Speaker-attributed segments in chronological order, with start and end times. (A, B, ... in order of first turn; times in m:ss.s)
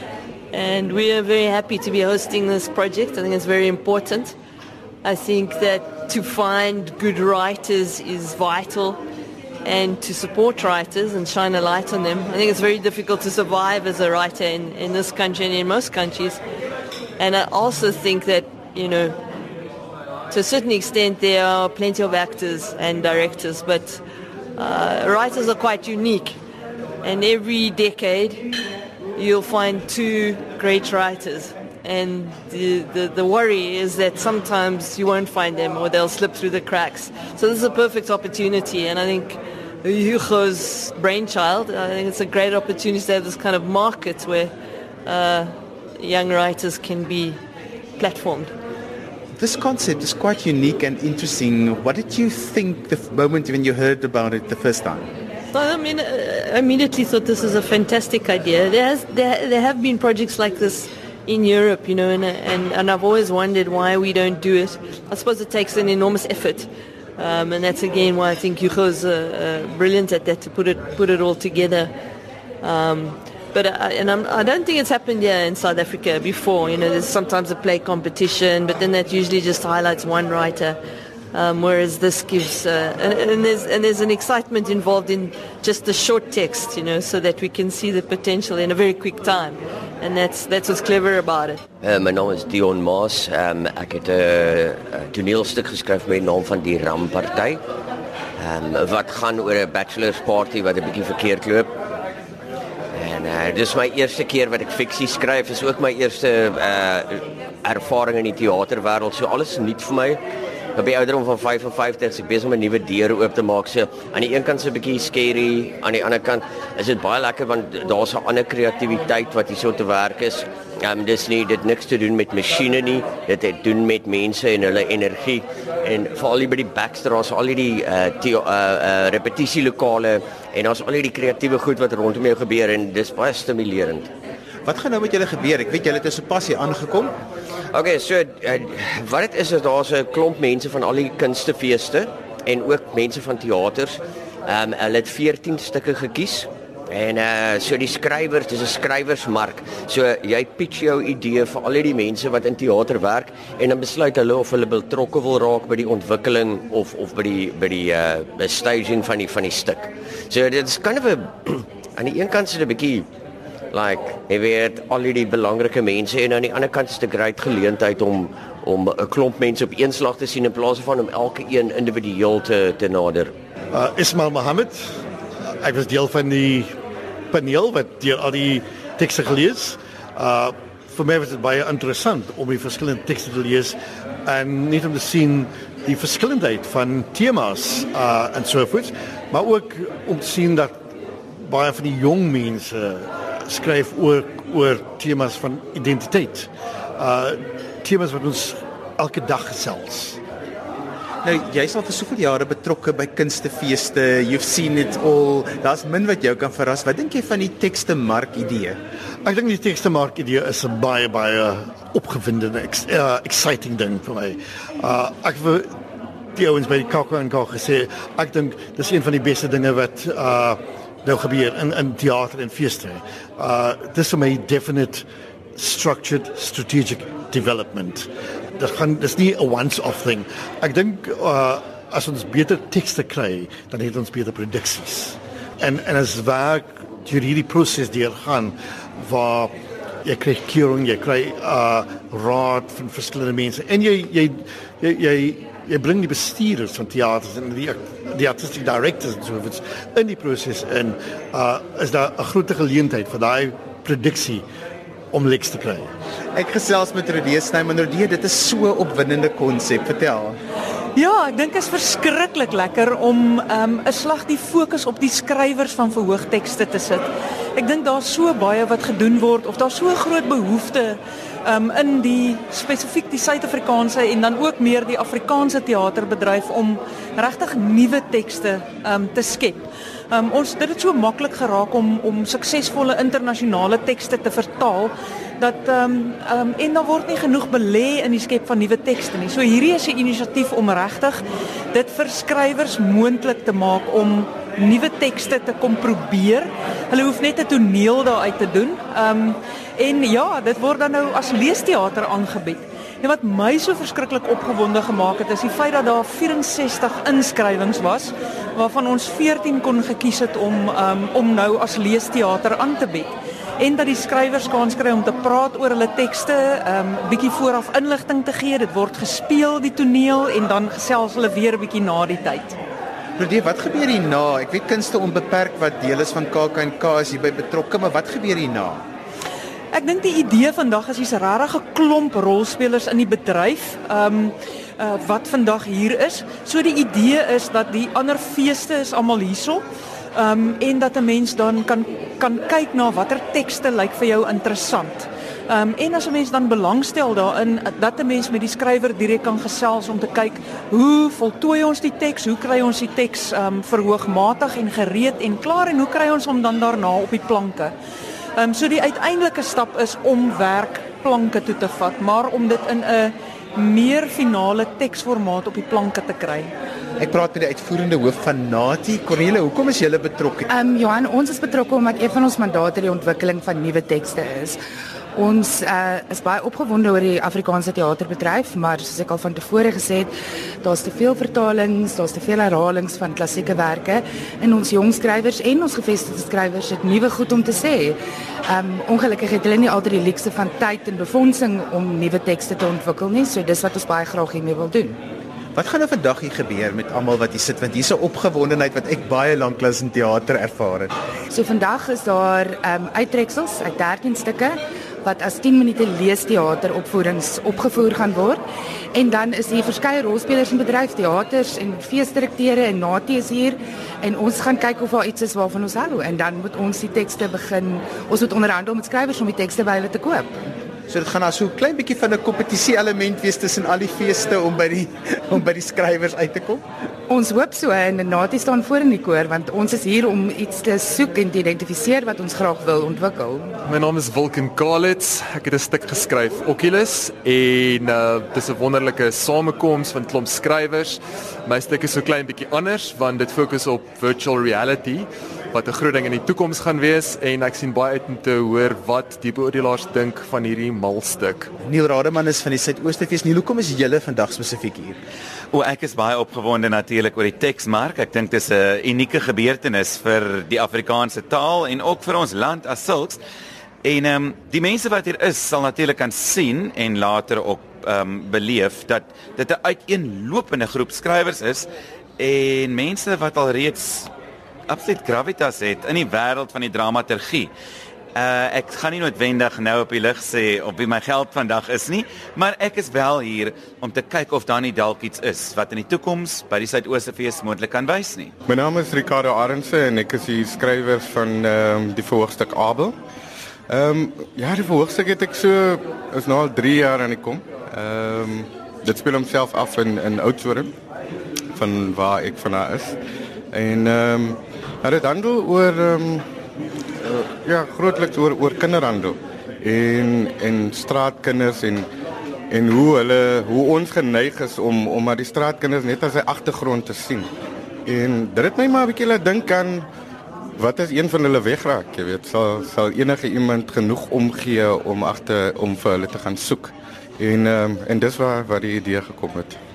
0:00.5-0:04.3 A
0:05.0-0:09.0 A
0:09.6-0:16.4 A
0:17.2-0:19.2 A
0:20.3-0:24.0 A
0:24.6-0:26.4 A
0:27.0-0:28.6 A
0:29.1-0:44.5 A
0:45.0-0:47.4 A
0:48.0-0:48.5 A
0:49.4-0:55.1 B
0:55.5-1:11.9 A
1:12.6-1:20.8 A
1:21.3-1:31.6 A
1:31.8-1:37.6 C
1:38.4-1:41.7 C
1:42.9-1:50.2 C
1:50.7-2:14.1 C
2:14.6-2:17.1 B
2:17.7-2:43.1 C
2:43.7-2:53.3 C
2:53.7-2:54.8 D
2:55.6-2:56.7 D
2:57.3-3:10.7 D
3:11.4-3:20.2 D
3:21.2-3:28.8 B
3:29.2-3:35.7 D
3:36.3-3:45.0 D
3:45.6-3:59.5 D
4:00.0-4:14.4 D
4:15.1-4:15.9 D
4:16.3-4:20.4 B
4:21.0-4:51.2 E
4:51.7-5:22.6 E
5:23.2-5:28.8 B
5:29.7-5:39.6 E
5:40.2-5:57.7 E
5:58.4-6:06.5 E
6:07.0-6:10.5 B
6:10.5-6:14.6 F
6:15.1-6:20.1 F
6:20.6-6:28.0 F
6:28.5-6:35.0 F
6:35.5-6:40.9 B
6:41.3-6:48.4 F
6:48.9-7:00.3 F
7:00.9-7:06.6 B
7:07.1-7:13.5 F
7:13.7-7:31.5 G
7:31.6-7:35.0 B
7:35.5-7:43.2 H
7:43.8-7:51.7 H
7:52.2-7:54.1 H
7:54.7-7:57.5 H
7:58.1-8:08.3 H
8:08.5-8:12.9 I
8:13.7-8:20.7 I
8:21.5-8:23.0 I
8:23.5-8:26.2 I
8:27.1-8:31.9 I
8:32.5-8:37.3 I
8:37.8-8:39.8 I
8:40.6-8:49.6 I